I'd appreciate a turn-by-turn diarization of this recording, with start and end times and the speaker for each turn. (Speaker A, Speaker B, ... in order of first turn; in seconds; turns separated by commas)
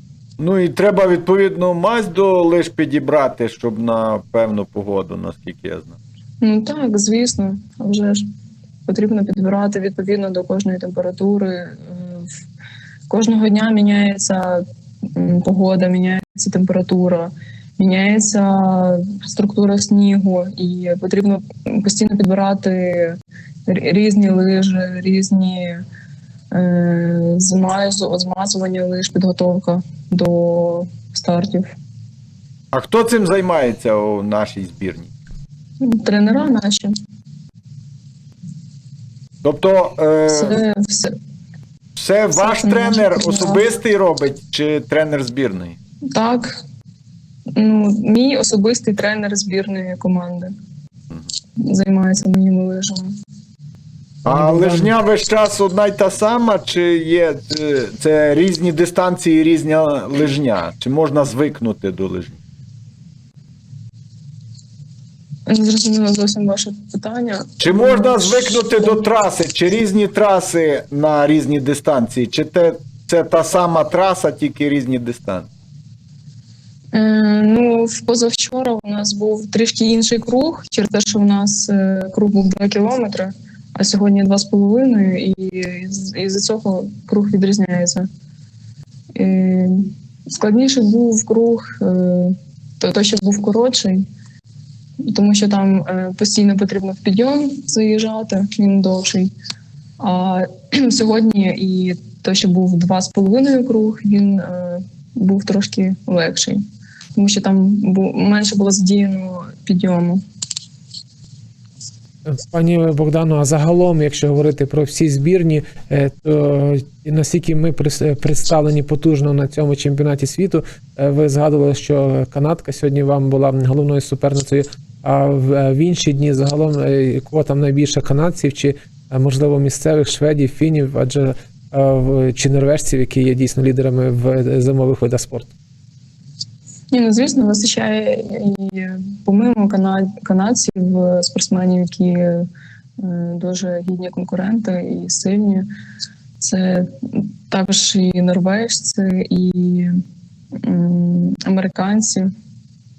Speaker A: 0.4-6.0, Speaker B: 6.4-8.2, Speaker B: 8.9-12.3, Speaker B: 13.1-14.6, Speaker B: 15.2-25.8, Speaker B: 26.5-31.8, Speaker A: 32.7-35.1, Speaker B: 35.8-36.9, Speaker A: 39.4-40.6, Speaker B: 40.3-41.1, Speaker A: 42.0-45.8, Speaker B: 42.3-43.7, Speaker B: 46.1-46.6, Speaker B: 47.6-50.5, Speaker B: 51.6-53.1, Speaker C: 54.2-54.9, Speaker A: 54.2-62.4, Speaker B: 65.5-69.0, Speaker A: 67.6-75.5, Speaker B: 76.9-88.1, Speaker B: 89.2-94.0, Speaker B: 95.0-99.3, Speaker B: 100.0-106.6, Speaker B: 107.2-110.2, Speaker C: 112.3-135.5, Speaker B: 136.9-142.5, Speaker B: 143.0-145.7, Speaker B: 146.4-149.9, Speaker B: 150.6-152.3